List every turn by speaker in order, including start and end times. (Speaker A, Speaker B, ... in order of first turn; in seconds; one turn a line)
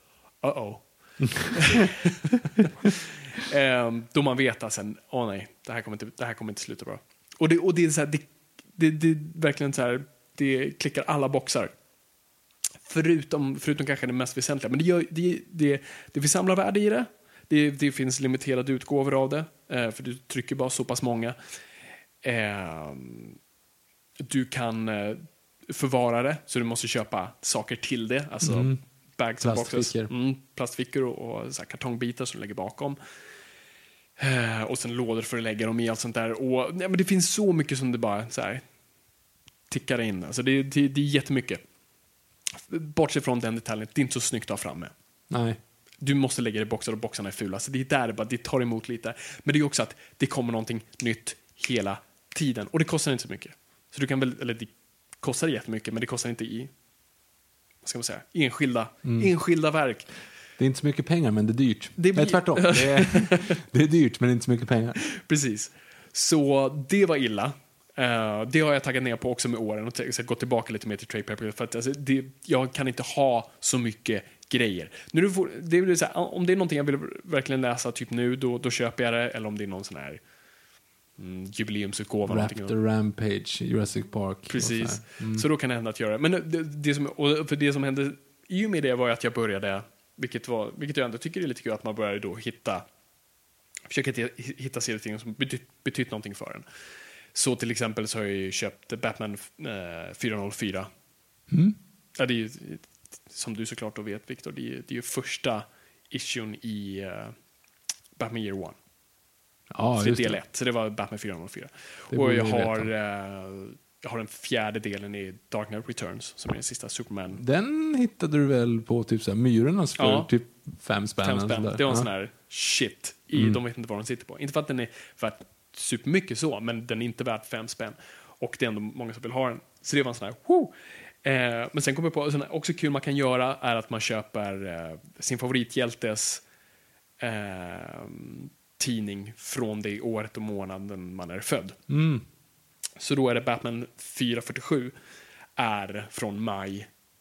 Speaker A: 0.4-11.7
Speaker A: 12.9-21.4
Speaker A: 22.2-23.4
Speaker A: 24.2-33.0
Speaker B: 28.4-28.8
Speaker B: 29.4-30.1
Speaker A: 34.2-38.6
Speaker A: 39.7-41.6
Speaker A: 42.7-44.9
Speaker B: 45.3-45.6
Speaker A: 46.0-56.7
Speaker A: 57.8-60.1
Speaker B: 59.0-59.3
Speaker B: 60.6-65.0
Speaker A: 62.0-63.5
Speaker A: 65.1-80.2
Speaker A: 81.2-82.7
Speaker B: 82.3-85.5
Speaker A: 84.5-92.8
Speaker A: 93.9-96.7
Speaker A: 97.3-100.9
Speaker B: 101.5-101.8
Speaker A: 102.2-107.3
Speaker A: 108.2-108.8
Speaker B: 109.7-110.4
Speaker A: 110.0-117.4
Speaker B: 112.1-112.9
Speaker B: 117.4-122.1
Speaker A: 120.0-120.3
Speaker A: 121.2-130.7
Speaker B: 123.3-123.6
Speaker A: 131.2-136.4
Speaker A: 137.2-141.8
Speaker B: 141.9-142.2
Speaker A: 143.0-144.9
Speaker A: 145.6-146.9